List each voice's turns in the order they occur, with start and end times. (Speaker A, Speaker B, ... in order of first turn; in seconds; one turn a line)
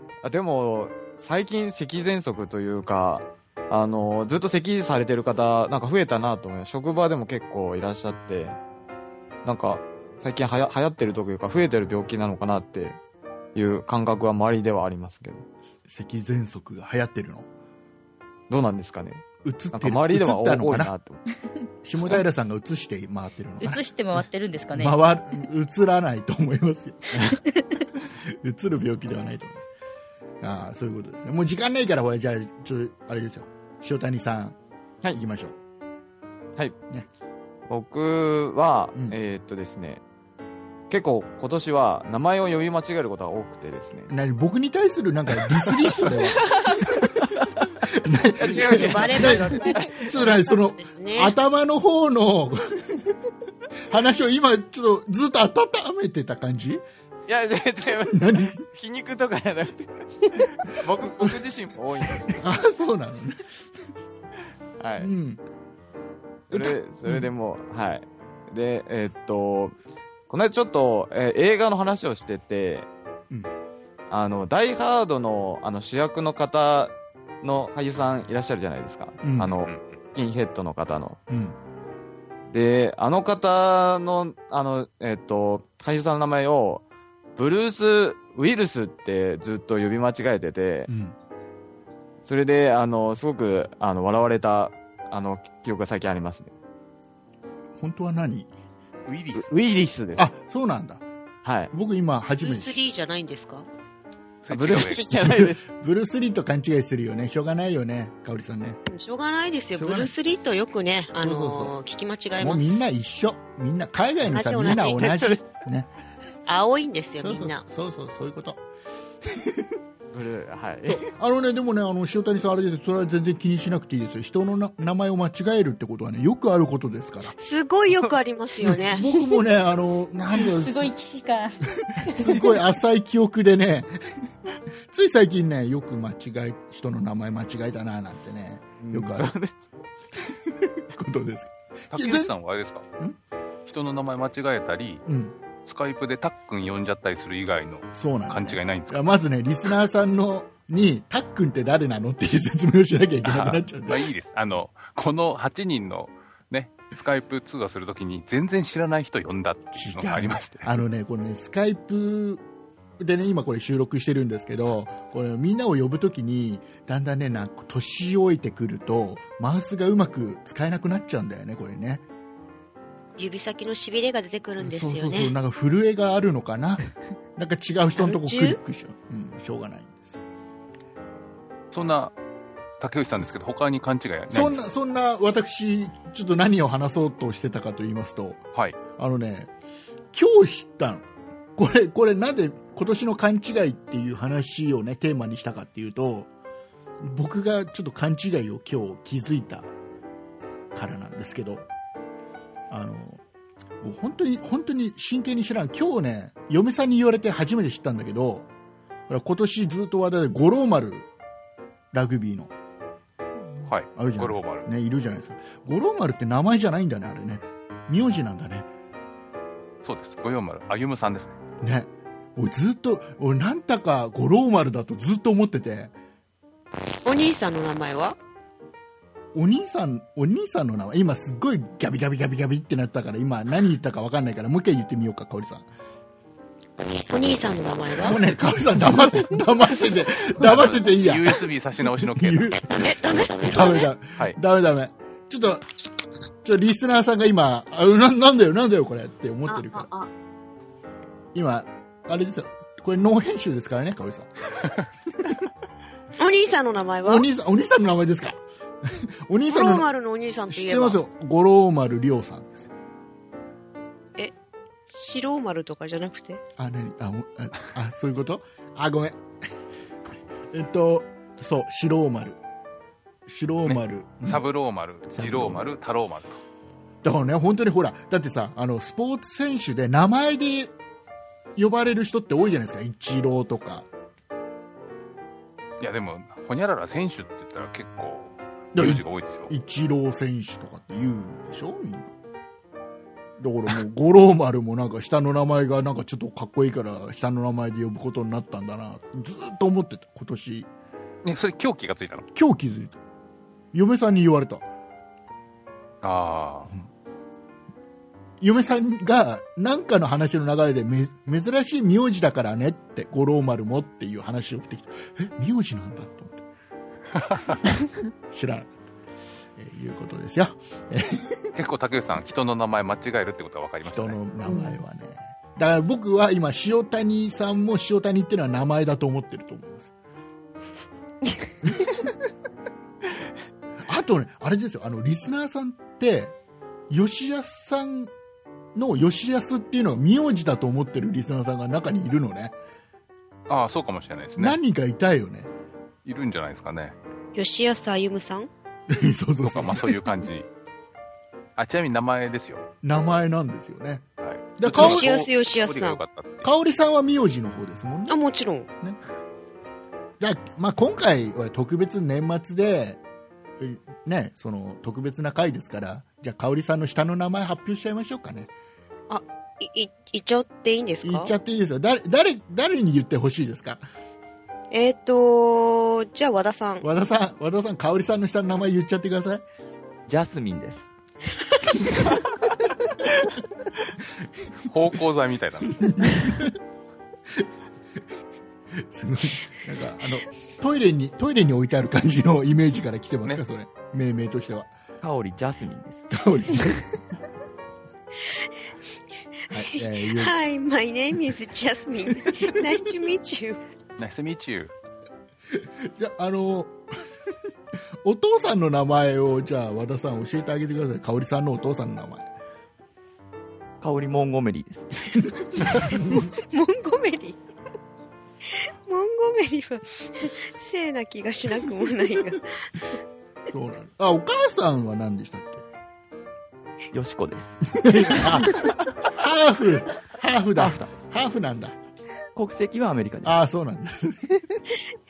Speaker A: 0.2-8.6
Speaker A: 9.4-13.0
Speaker A: 13.6-15.4
Speaker B: 15.9-17.5
Speaker A: 18.5-21.2
Speaker B: 19.4-20.9
Speaker B: 21.8-27.3
Speaker C: 23.6-25.0
Speaker B: 28.2-29.6
Speaker B: 30.4-34.6
Speaker B: 35.1-35.5
Speaker A: 37.7-40.0
Speaker A: 40.9-44.1
Speaker B: 44.1-47.1
Speaker A: 45.5-46.8
Speaker A: 47.4-47.6
Speaker B: 47.9-53.0
Speaker A: 48.4-50.1
Speaker D: 48.5-51.4
Speaker B: 53.9-56.8
Speaker A: 57.3-62.4
Speaker B: 58.1-58.6
Speaker B: 61.0-61.4
Speaker B: 62.3-63.5
Speaker A: 64.8-65.1
Speaker B: 65.0-65.4
Speaker A: 66.5-69.7
Speaker B: 66.5-67.3
Speaker A: 70.3-72.9
Speaker A: 74.1-81.2
Speaker B: 79.2-79.5
Speaker E: 79.7-80.0
Speaker B: 81.3-81.6
Speaker A: 82.5-86.8
Speaker A: 87.4-90.9
Speaker B: 90.9-91.1
Speaker A: 92.3-96.5
Speaker B: 97.8-98.5
Speaker E: 99.1-99.5
Speaker A: 99.3-100.2
Speaker B: 100.2-101.0
Speaker A: 101.4-101.7
Speaker B: 101.7-102.8
Speaker D: 102.4-103.7
Speaker E: 104.4-105.0
Speaker A: 104.5-105.6
Speaker B: 105.1-108.8
Speaker D: 108.9-112.8
Speaker B: 109.8-110.1
Speaker B: 111.2-111.7
Speaker B: 112.4-115.9
Speaker D: 114.3-115.1
Speaker A: 114.7-115.5
Speaker D: 116.5-117.6
Speaker B: 117.2-118.6
Speaker B: 119.3-119.6
Speaker A: 120.1-121.1
Speaker B: 120.9-127.3
Speaker D: 127.4-129.1
Speaker B: 128.6-130.9
Speaker C: 130.3-132.5
Speaker B: 131.9-133.9
Speaker B: 134.9-139.3
Speaker A: 138.8-139.6
Speaker B: 140.3-142.3
Speaker E: 141.9-142.8
Speaker E: 143.7-145.0
Speaker B: 145.1-145.3
Speaker E: 145.7-149.1
Speaker B: 147.9-154.1
Speaker E: 153.2-160.8
Speaker B: 159.8-162.4
Speaker B: 163.0-172.0
Speaker D: 173.2-175.3
Speaker B: 174.6-180.2
Speaker D: 178.0-178.6
Speaker E: 181.7-182.1
Speaker E: 182.8-184.6
Speaker B: 184.3-188.4
Speaker B: 188.9-189.5
Speaker B: 190.1-196.3
Speaker B: 197.0-199.7
Speaker B: 200.7-201.7
Speaker B: 202.7-203.2
Speaker B: 203.8-208.5
Speaker B: 209.1-211.1
Speaker B: 211.9-212.5
Speaker E: 213.7-214.7
Speaker B: 213.9-218.7
Speaker E: 219.8-221.4
Speaker B: 221.6-225.9
Speaker D: 227.1-228.2
Speaker B: 229.3-235.7
Speaker D: 237.0-238.2
Speaker B: 238.0-245.7
Speaker E: 240.4-242.5
Speaker D: 242.9-243.8
Speaker B: 246.4-249.9
Speaker D: 249.5-250.1
Speaker B: 251.3-254.3
Speaker D: 256.2-257.3
Speaker B: 257.1-259.9
Speaker D: 259.5-261.0
Speaker B: 260.5-262.7
Speaker D: 264.9-266.4
Speaker B: 266.6-269.2
Speaker B: 270.5-272.4
Speaker B: 273.3-274.4
Speaker E: 273.6-276.4
Speaker B: 275.1-275.7
Speaker B: 277.0-280.7
Speaker B: 281.6-283.9
Speaker E: 285.8-289.5
Speaker B: 288.7-292.1
Speaker B: 293.4-300.7
Speaker E: 301.2-302.3
Speaker B: 302.3-303.0
Speaker B: 303.7-304.7
Speaker E: 306.0-306.7
Speaker B: 308.4-316.4
Speaker E: 317.2-317.5
Speaker B: 318.3-318.7
Speaker B: 319.6-321.5
Speaker E: 321.6-324.2
Speaker B: 323.8-329.9
Speaker B: 333.9-336.3
Speaker B: 336.9-338.1
Speaker B: 338.7-342.6
Speaker E: 343.5-344.6
Speaker B: 344.4-345.5
Speaker E: 346.1-347.0
Speaker D: 347.3-348.5
Speaker B: 348.9-350.1
Speaker E: 349.4-350.5
Speaker E: 351.6-352.6
Speaker B: 352.8-354.1
Speaker E: 354.2-356.5
Speaker B: 354.6-355.1
Speaker D: 354.7-356.0
Speaker B: 356.4-358.2
Speaker D: 358.1-358.7
Speaker B: 360.2-363.0
Speaker B: 363.6-368.5
Speaker D: 369.1-371.3
Speaker B: 371.0-373.8
Speaker D: 374.7-376.8
Speaker B: 376.8-379.4
Speaker F: 380.1-380.9
Speaker E: 384.7-385.7
Speaker B: 385.7-386.6
Speaker B: 388.9-394.7
Speaker F: 395.0-396.2
Speaker B: 396.1-397.0
Speaker B: 399.5-400.3
Speaker D: 399.6-403.6
Speaker B: 402.3-402.7
Speaker E: 404.0-404.7
Speaker B: 405.6-406.8
Speaker B: 408.0-412.3
Speaker F: 413.8-415.2
Speaker B: 415.8-416.3
Speaker D: 416.4-417.4
Speaker D: 418.5-422.5
Speaker B: 423.5-425.6
Speaker F: 426.9-428.4
Speaker B: 427.8-431.8
Speaker F: 430.6-431.1
Speaker F: 432.3-433.4
Speaker B: 433.2-434.6